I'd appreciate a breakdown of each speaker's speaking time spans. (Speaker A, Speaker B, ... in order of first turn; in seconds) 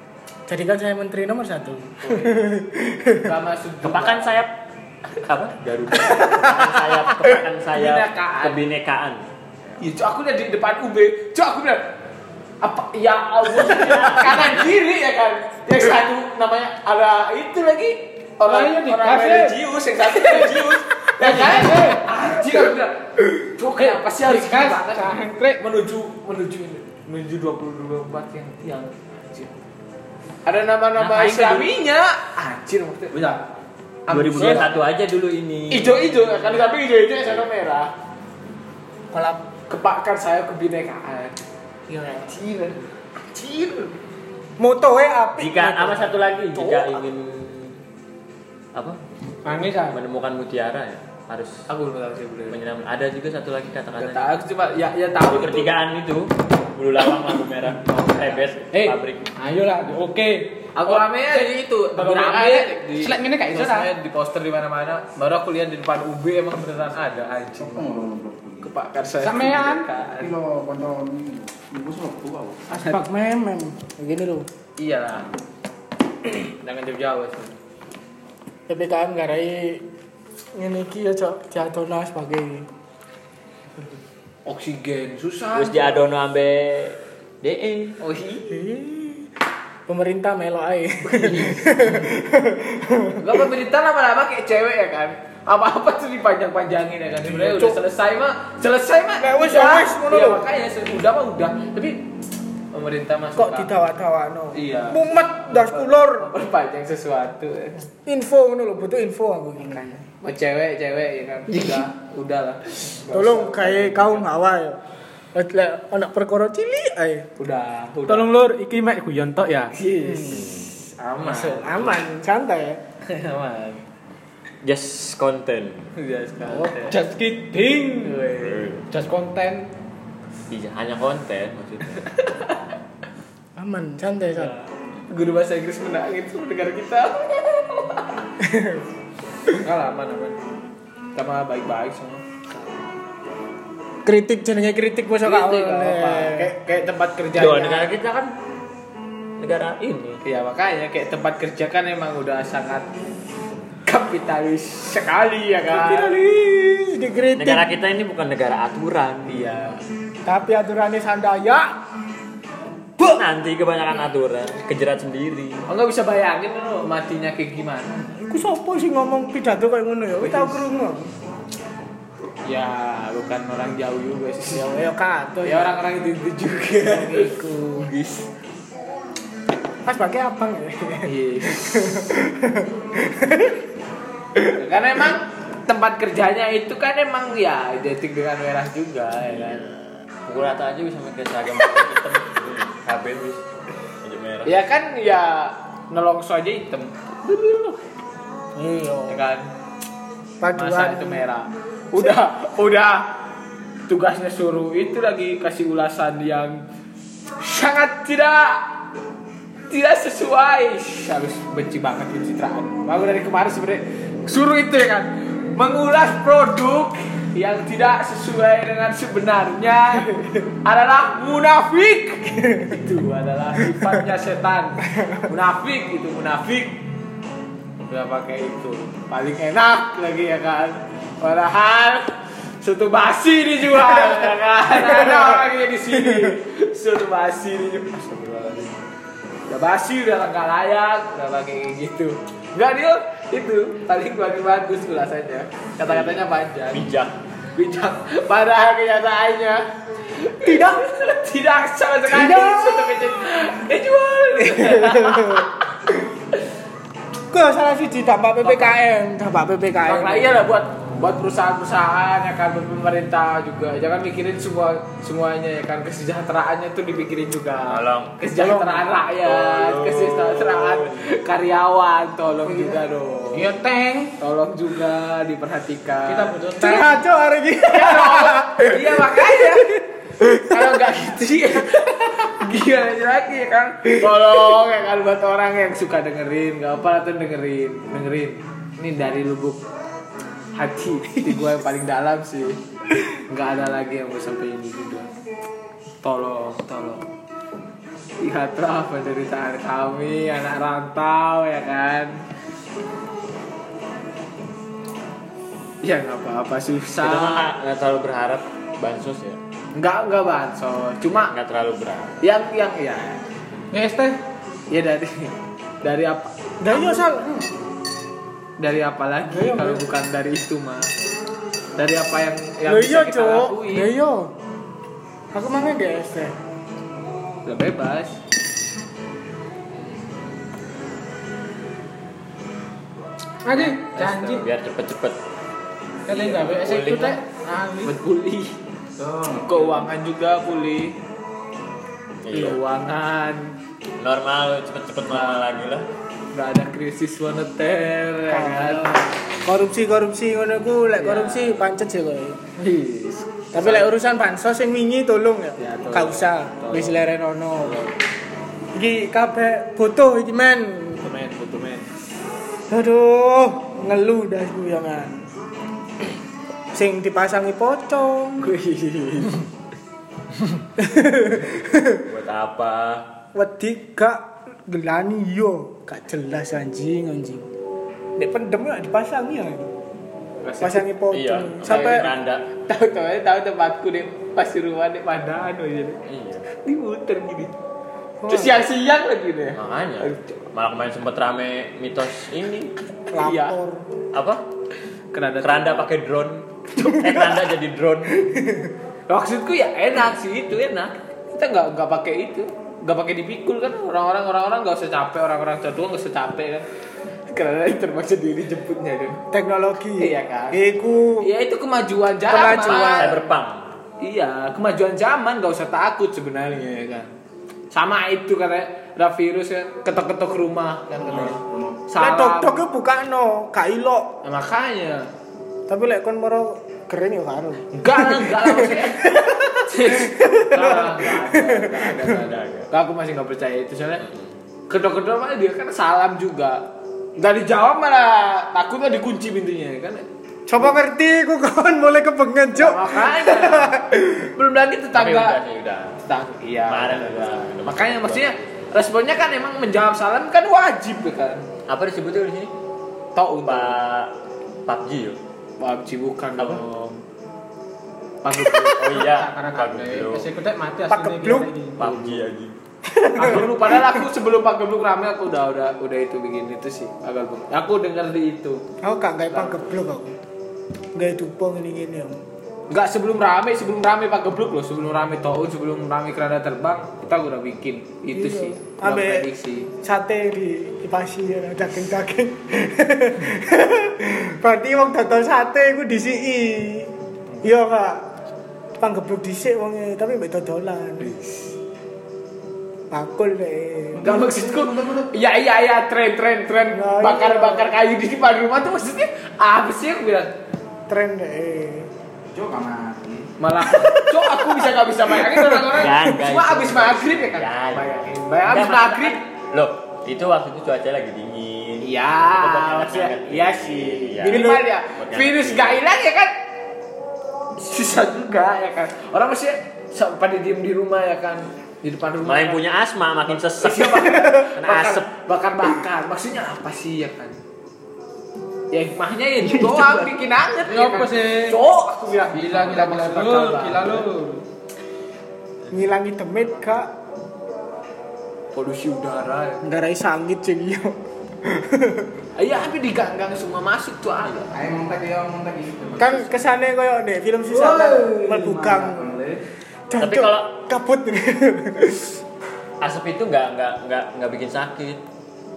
Speaker A: 0.5-3.3, 39.1-39.4, 44.6-47.0, 72.7-74.5, 78.7-79.8, 80.5-82.7, 88.5-89.3, 89.9-93.4, 97.2-97.8, 99.2-100.4, 103.3-106.3, 108.0-110.0, 113.1-114.8, 115.3-117.3, 120.0-120.5, 121.2-122.8, 133.6-134.6, 138.4-138.8, 144.0-146.5, 155.7-157.7, 160.2-161.8, 168.2-171.1, 174.5-175.7, 176.8-177.5, 179.8-183.6, 198.5-199.2, 200.4-201.2, 222.4-222.8, 225.0-225.2, 234.8-235.4, 236.1-236.3, 250.4-250.8, 252.1-253.0, 254.4-255.5, 257.3-260.4, 268.4-268.9, 272.5-272.8, 276.6-280.7, 316.6-317.4, 319.3-319.9, 322.6-324.3, 325.3-326.4, 348.3-352.4, 353.5-357.8, 358.7-361.0, 362.7-365.2, 366.7-368.6, 370.8-372.0, 373.3-377.5, 378.1-379.7, 380.6-382.1, 388.2-388.6, 393.1-393.9, 396.8-397.4, 398.1-398.7, 409.3-411.3, 412.3-413.2, 422.0-424.1, 425.7-432.1, 440.5-444.3, 460.9-461.5, 462.8-464.0, 468.8-470.2, 470.9-472.2, 478.1-479.3, 479.8-488.1, 488.8-491.1, 492.9-494.1, 496.7-497.7, 500.9-501.9, 503.7-504.7, 505.2-505.7, 514.2-514.6, 529.4-530.1, 535.7-536.9, 539.6-542.1, 546.0-549.2, 549.9-552.1
Speaker B: 2.0-2.5, 3.2-4.4, 6.2-6.5, 7.7-8.6, 9.8-11.9, 12.6-29.5, 30.4-33.4, 34.1-34.9, 35.7-37.9, 39.7-43.9, 51.7-52.6, 54.0-55.7, 57.9-58.4, 60.7-67.9, 68.6-70.3, 72.7-73.0, 74.8-75.3, 76.3-77.5, 84.5-86.0, 88.0-88.6, 91.0-91.9, 93.2-102.1, 102.7-103.7, 104.5-107.8, 110.0-114.3, 117.4-118.3, 119.7-122.0, 123.0-123.8, 125.9-127.0, 128.0-128.7, 132.0-132.6, 135.1-138.2, 139.5-140.4, 141.2-142.2, 145.2-147.9, 150.2-152.9, 153.8-156.2, 159.3-159.7, 165.7-168.1, 170.2-170.6, 172.4-174.9, 175.4-178.2, 181.0-182.0, 184.5-189.7, 194.4-197.8, 199.1-199.5, 200.6-203.1, 203.9-206.6, 207.4-208.7, 209.7-226.8, 227.9-238.8, 239.5-246.8, 247.6-255.6, 258.4-258.8, 259.8-273.5, 274.2-276.4, 277.6-279.8, 280.3-289.6, 290.5-292.6, 293.3-295.1, 296.0-297.0, 298.2-302.2, 305.8-307.5, 309.7-311.3, 312.2-313.2, 314.7-317.0, 318.6-320.9, 321.8-323.9, 327.4-328.2, 333.5-334.4, 336.1-337.0, 337.8-338.6, 339.4-341.0, 342.3-343.5, 345.1-345.5, 346.3-349.0, 350.9-351.7, 352.6-353.9, 355.6-357.0, 357.6-358.0, 361.0-361.9, 368.4-369.4, 380.4-380.9, 381.6-382.1, 382.6-387.5, 388.3-390.4, 393.2-393.6, 395.1-395.9, 399.1-406.7, 407.3-409.2, 410.0-410.6, 411.2-413.2, 414.0-417.1, 417.7-422.6, 424.2-425.1, 427.7-434.0, 434.7-436.6, 437.2-440.0, 442.5-443.8, 444.3-445.4, 446.0-451.5, 453.1-453.8, 455.6-457.0, 458.2-459.1, 461.8-462.2, 463.1-468.6, 469.3-469.7, 472.7-479.7, 491.0-491.5, 494.0-500.3, 503.4-509.2, 511.8-516.3, 517.5-522.6, 523.3-527.4, 528.7-534.1, 538.5-539.6, 542.4-544.6
Speaker C: 3.8-4.5, 5.2-9.2, 13.5-14.7, 31.0-31.7, 34.1-36.4, 45.4-47.8, 49.7-51.6, 52.5-54.3, 55.2-59.3, 85.5-88.0, 120.3-120.6, 124.6-125.9, 128.4-128.9, 130.5-132.1, 147.3-148.3, 149.4-150.2, 157.3-159.6, 163.1-165.6, 190.2-193.4, 194.0-194.5, 245.8-246.2, 246.7-247.1, 267.7-268.1, 269.2-271.0, 307.0-309.4, 311.2-312.2, 334.1-335.2, 336.1-337.2, 342.2-342.6, 344.0-345.9, 372.0-373.0, 381.1-382.4, 386.1-386.4, 389.5-392.7, 394.1-394.4, 395.4-398.2, 412.5-413.7, 432.1-432.7, 444.9-446.0, 446.7-448.4, 451.7-452.5, 453.4-454.1, 454.6-455.2, 458.7-460.3, 461.8-462.5, 505.7-515.8, 522.2-525.1, 550.0-550.5, 552.8-555.0
Speaker D: 18.4-19.6, 20.3-20.6, 21.2-22.1, 23.7-25.6, 49.4-50.0, 58.7-63.9, 69.2-69.9, 118.1-119.8, 126.8-128.2, 128.9-129.7, 273.3-274.1, 276.1-277.0, 313.7-314.2, 333.4-334.4, 336.1-337.9, 458.9-461.8, 530.6-531.6, 532.3-534.4
Speaker E: 67.6-68.7, 70.2-72.7, 339.0-339.9, 421.0-421.8, 493.9-495.1, 502.3-503.3, 544.5-546.3, 547.5-549.4